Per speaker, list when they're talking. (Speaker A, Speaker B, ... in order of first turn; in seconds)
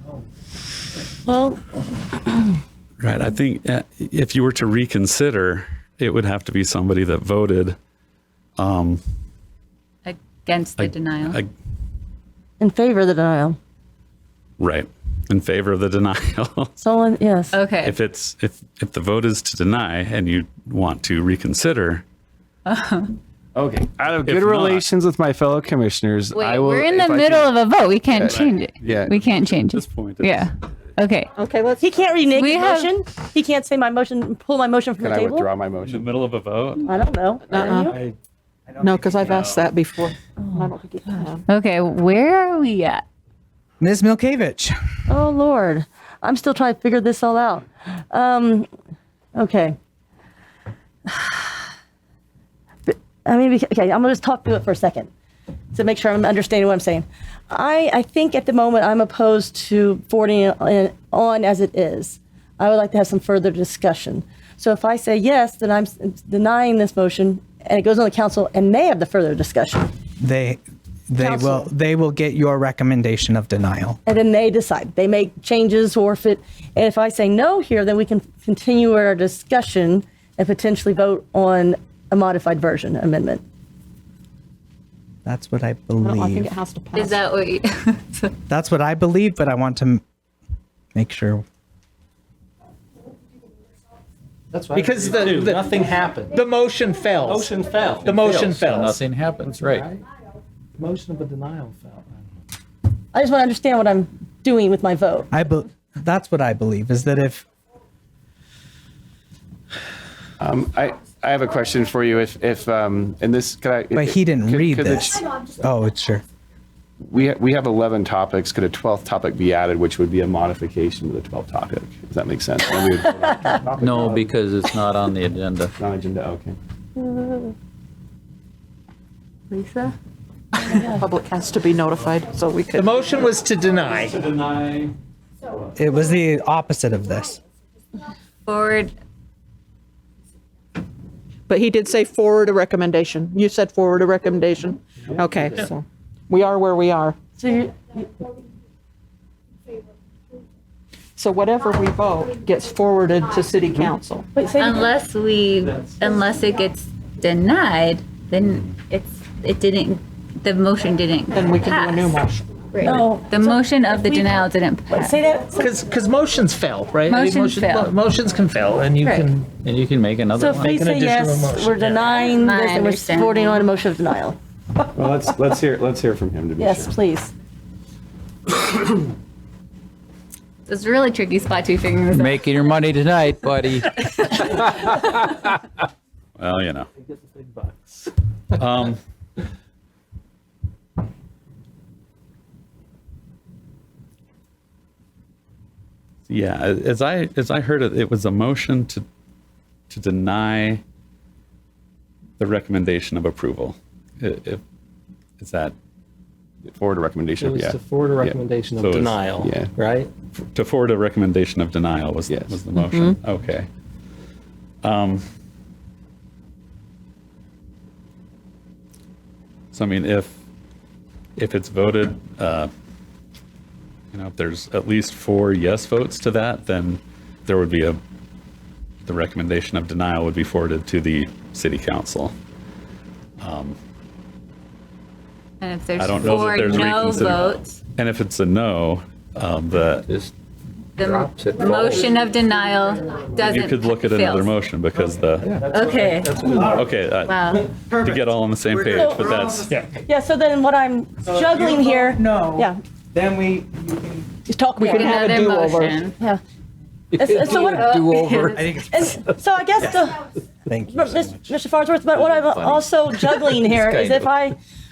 Speaker A: 1.2-1.6, 12.6-13.6, 16.8-17.6, 31.8-35.5, 36.8-38.0, 40.4-41.4, 45.1-48.7, 49.3-49.8, 51.1-51.5, 52.9-55.1, 55.7-69.9, 71.2-71.7, 74.0-83.4, 103.1-105.3, 127.0-127.5, 129.5-129.9, 130.6-131.1, 147.4-148.1, 154.3-154.9, 162.8-165.8, 170.4-174.4, 176.6-177.3, 248.9-249.4, 250.0-252.8, 254.5-255.4, 257.1-260.2, 260.9-264.6
Speaker B: 3.0-7.8, 8.6-9.0, 10.8-11.5, 14.6-16.8, 17.8-22.0, 24.2-24.9, 28.3-30.5, 35.8-36.9, 133.8-134.9, 186.4-186.9, 188.5-189.0, 196.3-199.0, 199.9-200.8, 202.4-204.6, 205.4-205.7, 208.8-209.2, 210.3-213.7, 214.8-215.2, 219.7-220.3, 221.4-222.7, 224.1-228.0, 229.0-232.3, 233.4-233.8, 235.9-240.1, 243.4-245.6, 246.6-249.7
Speaker C: 10.0-11.4, 17.5-17.9, 22.6-23.1, 26.3-31.3, 32.3-32.9, 41.5-43.0, 86.9-88.3, 138.4-138.9, 154.6-162.2, 162.7-165.1, 167.0-168.0, 169.0-169.3, 171.8-173.7, 180.7-182.8, 235.6-237.8, 241.0-244.5, 245.6-246.5, 247.2-247.7, 254.8-256.1, 257.6-258.7
Speaker D: 23.5-27.5, 28.1-29.1, 35.0-36.1, 110.4-115.3, 117.0-124.3, 125.8-126.5, 174.9-176.9, 206.7-208.4, 209.3-209.7, 212.3-212.6
Speaker E: 31.4-31.9, 37.5-37.9, 38.8-41.4, 86.0-87.2, 131.0-133.1, 141.5-147.2, 151.2-154.2, 161.3-162.5, 254.8-255.9
Speaker F: 43.8-44.7, 70.2-74.0, 85.2-86.5, 88.5-90.0, 90.9-91.4, 105.3-107.4, 113.9-116.2, 135.8-137.4, 245.6-246.8, 247.8-249.7, 251.3-254.2, 258.5-258.8, 260.7-261.3
Speaker G: 94.5-96.4, 97.2-98.9, 99.6-100.0, 100.8-102.1, 207.4-210.1, 246.3-246.6
Speaker H: 94.8-95.5, 96.5-97.4, 98.0-98.9, 133.0-134.2, 165.6-169.5, 170.7-171.6
Speaker I: 98.0-99.9, 123.8-125.8, 169.6-170.8, 182.1-183.9, 236.2-236.9, 241.0-242.1, 257.1-258.6, 262.2-262.8, 263.7-264.3